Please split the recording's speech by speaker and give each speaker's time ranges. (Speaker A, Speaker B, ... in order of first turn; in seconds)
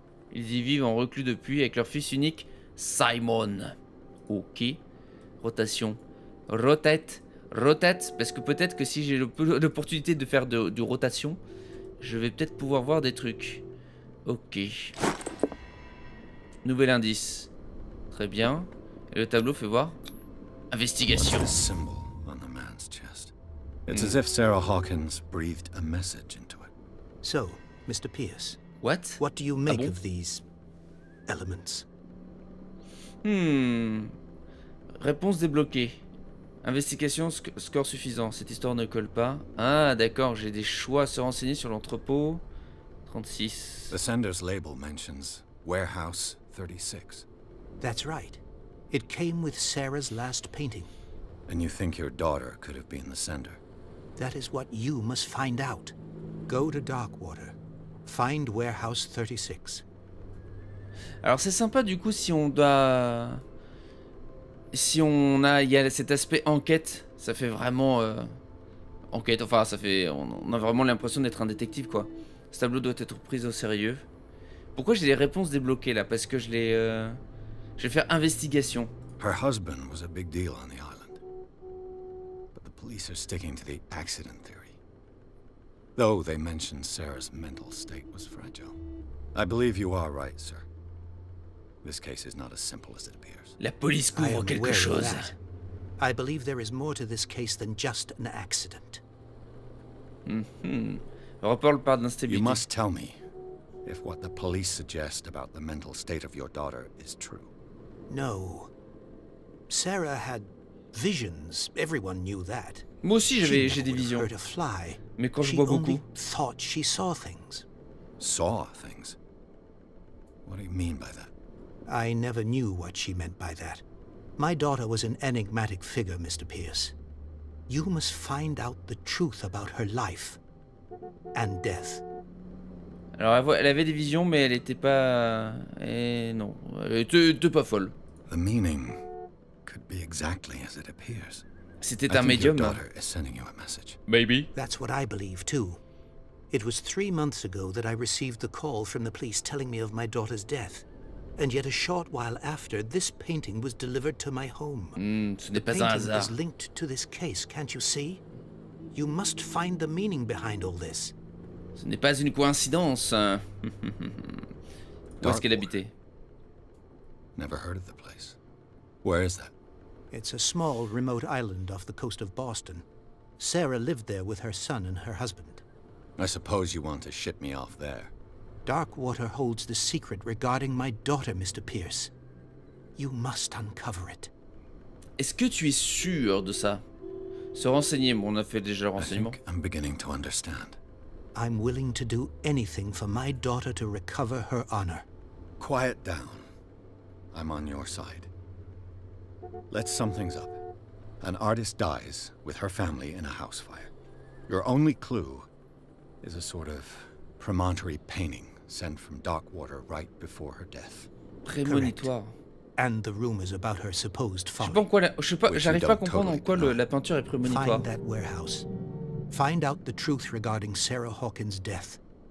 Speaker A: 0.3-3.7, 4.3-4.8, 5.4-11.4, 12.0-13.6, 14.2-14.9, 16.6-17.5, 18.1-20.0, 20.7-21.5, 23.9-24.2, 28.8-29.9, 33.2-34.1, 35.0-36.0, 36.6-42.4, 43.0-43.9, 61.2-63.4, 64.7-68.4, 69.1-74.0, 74.7-77.2, 77.8-78.9, 93.6-95.3, 100.2-102.6, 113.0-114.3, 115.2-116.0, 133.2-137.9, 141.8-142.8, 144.1-144.5, 154.9-156.3, 161.8-164.5, 165.2-165.9, 185.2-186.8, 187.5-189.4, 211.4-212.4, 214.6-217.9
Speaker B: 21.1-23.3, 23.9-26.7, 43.9-47.2, 51.5-53.6, 79.2-81.2, 82.5-84.8, 86.0-88.8, 89.3-90.7, 91.8-93.6, 102.3-103.2, 103.8-107.5, 118.2-119.2, 120.4-121.3, 138.3-139.0, 139.6-141.4, 142.1-144.0, 165.2-165.7, 167.3-168.4, 169.0-169.5, 176.2-178.1, 189.0-190.8, 195.6-196.4, 197.3-198.3, 199.7-200.6, 201.2-203.9, 204.5-205.5, 206.2-211.1, 215.4-216.8
Speaker C: 27.2-28.6, 29.2-30.4, 31.3-31.9, 47.8-50.9, 54.2-55.9, 56.5-59.8, 94.1-95.3, 96.0-99.0, 108.1-108.7, 109.7-112.9, 113.4-117.7, 121.9-123.8, 124.4-126.9, 127.7-130.4, 131.3-132.0, 144.5-145.8, 146.5-150.8, 151.4-155.0, 155.5-158.2, 158.9-161.1, 170.1-172.8, 173.4-175.6, 178.7-182.1, 183.0-184.3, 191.3-195.1, 211.6-212.1, 212.8-214.9, 217.4-218.7, 219.3-222.0